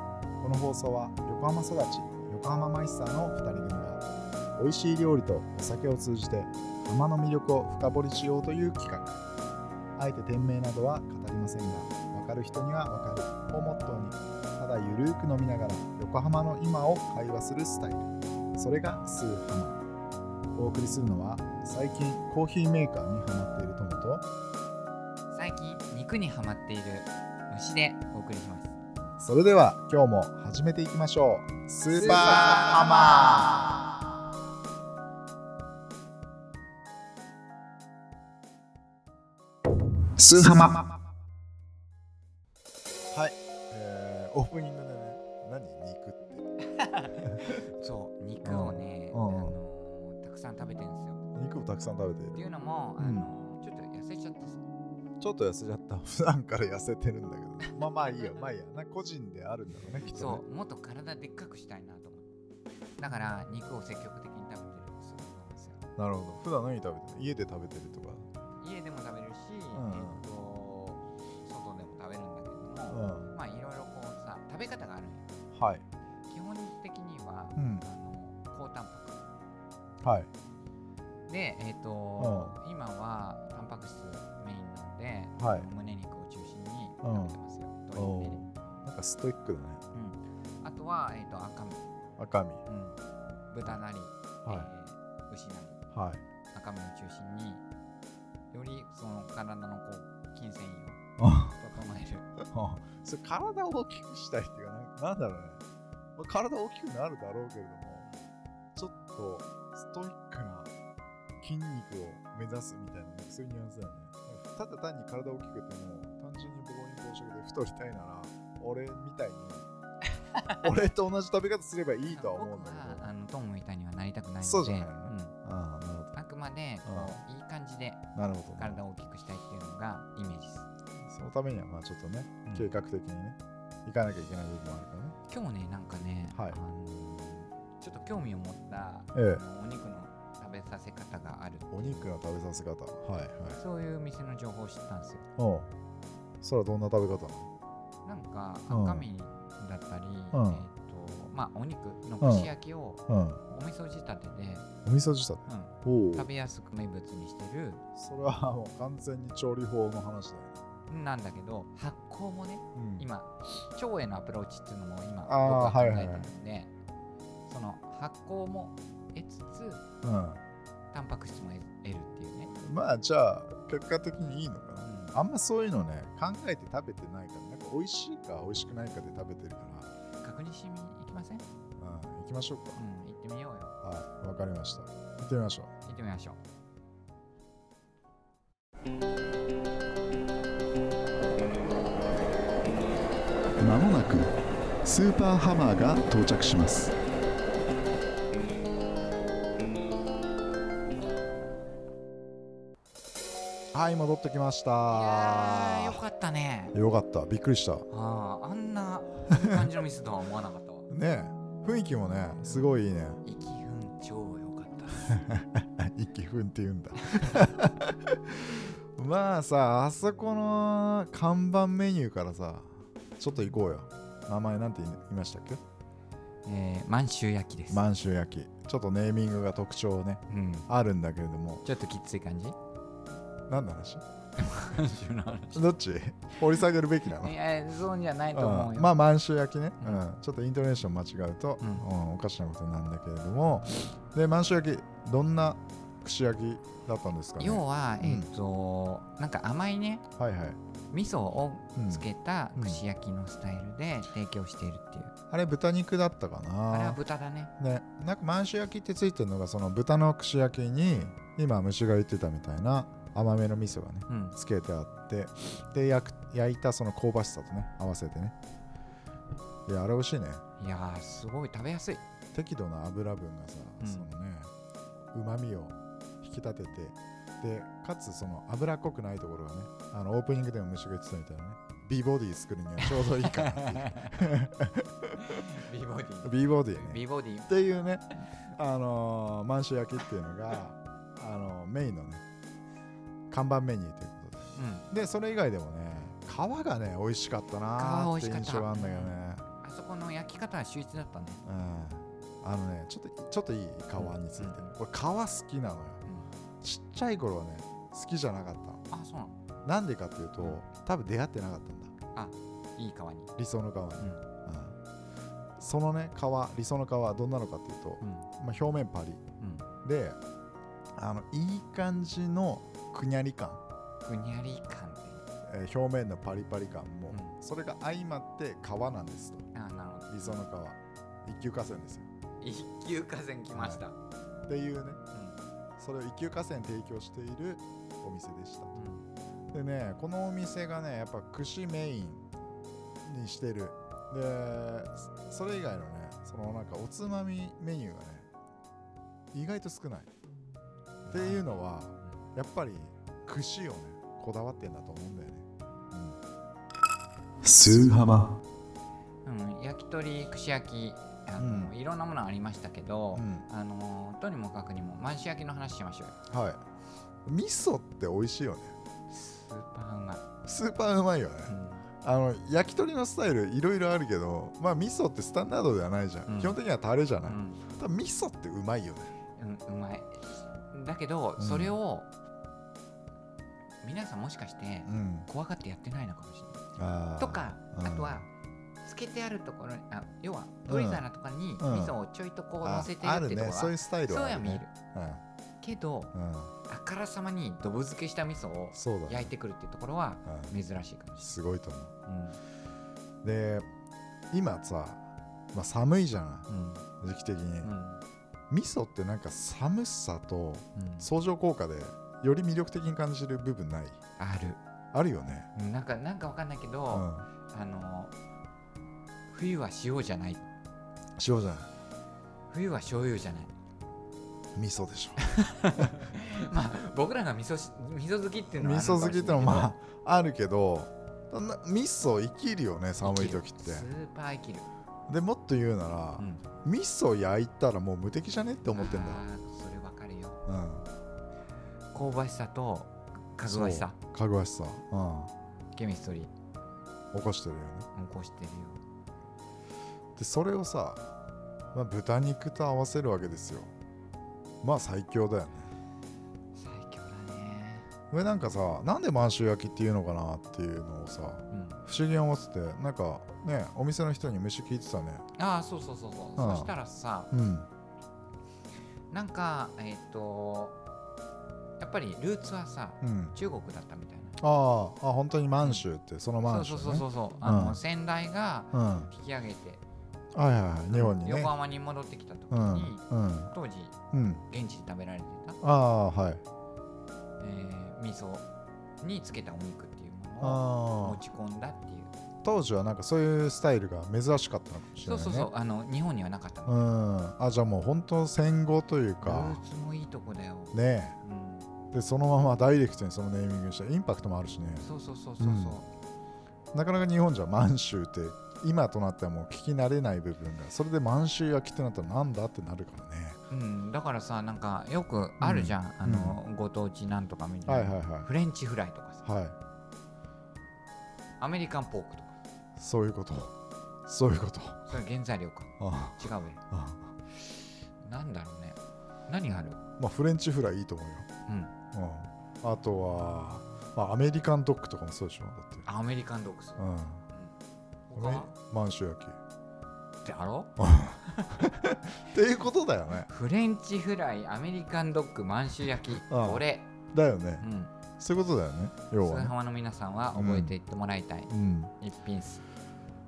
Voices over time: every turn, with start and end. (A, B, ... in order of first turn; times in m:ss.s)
0:00.4-0:04.0 A
0:04.6-0:09.2 A
0:10.0-0:19.8 A
0:20.6-0:24.2 A
0:25.3-0:28.7 B
0:29.2-0:33.8 A
0:31.9-0:33.7 B
0:40.2-0:40.9 A
0:43.1-0:46.5 A
0:46.7-0:51.2 B
0:47.2-0:47.6 A
0:48.4-0:49.6 A
0:51.3-0:52.4 A
0:52.3-0:54.6 B
0:53.0-0:53.3 A
0:55.2-1:00.4 A
0:57.7-0:58.5 B
0:59.9-1:02.3 B
1:03.0-1:05.8 B
1:06.0-1:08.2 A
1:08.6-1:15.2 B
1:09.7-1:10.2 A
1:12.9-1:13.3 A
1:15.5-1:15.8 A
1:16.3-1:19.2 B
1:17.6-1:17.8 A
1:20.0-1:20.3 A
1:21.3-1:28.4 B
1:22.2-1:22.6 A
1:25.4-1:25.7 A
1:27.0-1:27.4 A
1:27.9-1:29.8 A
1:29.9-1:31.8 B
1:32.2-1:32.6 A
1:32.7-1:33.0 B
1:33.5-1:35.8 B
1:34.4-1:34.7 A
1:35.9-1:36.2 A
1:36.5-1:37.6 B
1:38.5-1:41.0 B
1:41.2-1:41.6 A
1:41.6-1:42.3 B
1:42.4-1:45.6 A
1:46.2-1:48.1 A
1:48.8-1:50.7 A
1:51.4-1:59.7 A
2:00.3-2:00.7 B
2:00.6-2:03.1 A
2:02.1-2:05.4 B
2:04.4-2:06.1 A
2:06.2-2:08.0 B
2:06.8-2:07.2 A
2:08.2-2:08.8 A
2:08.6-2:10.7 B
2:11.1-2:15.2 A
2:15.3-2:22.1 B
2:16.3-2:16.6 A
2:19.1-2:19.4 A
2:21.7-2:23.6 A
2:23.6-2:25.3 B
2:25.4-2:25.7 A
2:26.4-2:27.5 A
2:28.0-2:34.7 B
2:28.7-2:29.1 A
2:30.3-2:30.7 A
2:32.2-2:32.5 A
2:33.1-2:33.4 A
2:34.8-2:36.3 A
2:35.5-2:37.8 B
2:38.0-2:40.6 A
2:40.9-2:46.7 B
2:42.8-2:43.1 A
2:45.2-2:46.3 A
2:47.5-2:49.8 B
2:50.0-2:50.4 A
2:50.9-2:52.5 B
2:52.5-3:00.0 A
2:54.8-2:55.2 B
3:00.2-3:01.4 B
3:01.8-3:02.8 A
3:02.8-3:03.8 B
3:03.8-3:05.7 A
3:05.9-3:06.4 B
3:13.6-3:14.3 A
3:14.8-3:17.0 A
3:23.7-3:26.0 A
3:24.9-3:26.8 B
3:26.7-3:27.9 A
3:27.9-3:30.9 B
3:29.3-3:29.6 A
3:30.9-3:33.2 A
3:33.2-3:35.2 B
3:35.1-3:45.6 A
3:37.0-3:37.5 B
3:46.4-3:47.9 B
3:47.7-3:51.6 A
3:50.3-3:50.7 B
3:51.6-3:52.6 B
3:53.5-3:54.0 A
3:54.4-3:55.7 B
3:55.5-3:57.4 A
3:57.1-3:58.9 B
3:58.3-4:08.3 A
3:59.8-4:00.1 B
4:01.6-4:01.8 B
4:07.4-4:10.1 B
4:10.1-4:10.6 A
4:10.9-4:15.1 B
4:11.8-4:12.8 A
4:15.3-4:17.0 A
4:16.7-4:17.5 B
4:17.6-4:28.4 A
4:24.1-4:24.4 B
4:29.7-4:30.4 A
4:30.6-4:32.0 B
4:32.3-4:34.5 A
4:33.8-4:34.1 B
4:35.1-4:45.5 A
4:42.8-4:44.2 B
4:45.2-4:47.6 B
4:46.2-4:52.2 A
4:53.3-4:59.5 A
4:54.6-4:54.9 B
4:57.8-5:01.4 B
5:01.4-5:06.0 A
5:04.0-5:04.8 B
5:06.0-5:06.3 B
5:06.6-5:08.8 A
5:08.9-5:09.4 B
5:09.6-5:11.9 A
5:12.2-5:13.3 B
5:13.4-5:14.8 A
5:15.6-5:19.2 A
5:18.0-5:18.3 B
5:19.4-5:19.7 B
5:19.8-5:20.2 A
5:21.0-5:23.6 A
5:24.0-5:25.2 B
5:25.4-5:29.5 A
5:27.1-5:27.4 B
5:29.5-5:30.4 B
5:30.1-5:32.1 A
5:32.4-5:33.9 B
5:33.5-5:33.8 A
5:34.5-5:35.0 A
5:35.1-5:35.4 B
5:35.8-5:38.8 A
5:38.7-5:39.1 B
5:39.5-5:42.2 A
5:43.0-5:48.3 A
5:49.3-5:50.1 A
5:51.1-5:56.2 A
5:51.1-5:51.4 B
5:57.4-5:58.4 A
5:59.2-6:06.2 B
6:01.4-6:01.7 A
6:03.1-6:03.5 A
6:06.3-6:06.6 A
6:07.2-6:08.7 A
6:09.1-6:10.3 B
6:10.4-6:19.2 A
6:11.5-6:11.9 B
6:16.3-6:16.6 B
6:17.2-6:17.7 B
6:19.4-6:22.1 B
6:21.4-6:21.8 A
6:23.8-6:26.6 B
6:24.9-6:25.3 A
6:26.8-6:28.2 A
6:27.2-6:28.3 B
6:28.8-6:34.8 B
6:30.7-6:31.1 A
6:31.6-6:32.0 A
6:32.6-6:35.2 A
6:35.6-6:36.1 B
6:36.1-6:36.5 A
6:36.7-6:41.3 B
6:38.7-6:39.3 A
6:40.2-6:40.5 A
6:41.2-6:41.9 A
6:42.1-6:42.4 B
6:43.2-6:43.7 A
6:44.3-6:45.0 A
6:45.5-6:46.5 A
6:46.5-6:46.9 B
6:47.0-6:47.7 A
6:47.6-6:48.0 B
6:48.5-6:54.0 A
6:50.8-6:51.1 B
6:54.2-6:54.6 B
6:54.9-6:55.5 A
6:55.6-6:58.1 B
6:56.9-6:57.3 A
6:59.3-7:00.5 B
7:01.2-7:01.7 A
7:02.5-7:03.5 B
7:04.6-7:05.2 A
7:05.2-7:09.7 B
7:08.6-7:13.9 A
7:13.0-7:14.7 B
7:15.1-7:19.2 A
7:16.2-7:16.5 B
7:18.7-7:20.4 B
7:20.5-7:20.9 A
7:21.9-7:24.0 B
7:23.4-7:25.3 A
7:25.7-7:26.3 B
7:27.1-7:27.9 A
7:27.9-7:28.8 B
7:30.2-7:31.1 A
7:31.7-7:33.7 A
7:34.6-7:35.7 A
7:36.6-7:37.9 B
7:38.1-7:45.2 A
7:41.5-7:41.8 B
7:45.4-7:47.3 B
7:46.4-7:46.8 A
7:47.3-7:47.7 A
7:49.1-7:50.8 B
7:51.8-7:54.4 B
7:53.0-7:53.4 A
7:54.4-7:57.8 A
7:55.6-7:55.9 B
7:56.4-7:59.8 B
7:58.7-7:59.1 A
8:00.3-8:01.5 A
8:00.9-8:04.0 B
8:02.5-8:03.5 A
8:04.1-8:04.4 A
8:04.5-8:05.6 B
8:05.6-8:06.4 A
8:07.4-8:08.5 B
8:09.0-8:12.1 B
8:10.4-8:11.2 A
8:12.4-8:15.5 A
8:15.0-8:16.8 B
8:16.7-8:19.6 A
8:19.2-8:21.7 B
8:20.7-8:21.2 A
8:21.9-8:24.9 A
8:24.8-8:25.9 B
8:25.4-8:25.8 A
8:26.7-8:33.4 A
8:33.5-8:39.2 B
8:35.4-8:36.4 A
8:37.6-8:38.3 A
8:39.2-8:39.5 A
8:41.4-8:42.3 B
8:42.8-8:43.5 A
8:44.1-8:45.0 A
8:44.9-8:46.6 B
8:45.8-8:47.1 A
8:47.4-8:49.8 B
8:50.0-8:51.3 A
8:51.5-8:51.8 B
8:51.9-8:55.9 A
8:55.8-8:57.6 B
8:56.8-8:57.2 A
8:58.1-8:58.5 B
8:58.1-8:59.4 A
9:00.2-9:01.8 B
9:00.8-9:03.3 A
9:03.2-9:06.9 B
9:06.3-9:09.5 A
9:07.6-9:08.0 B
9:09.2-9:12.6 B
9:10.3-9:10.8 A
9:11.5-9:11.9 A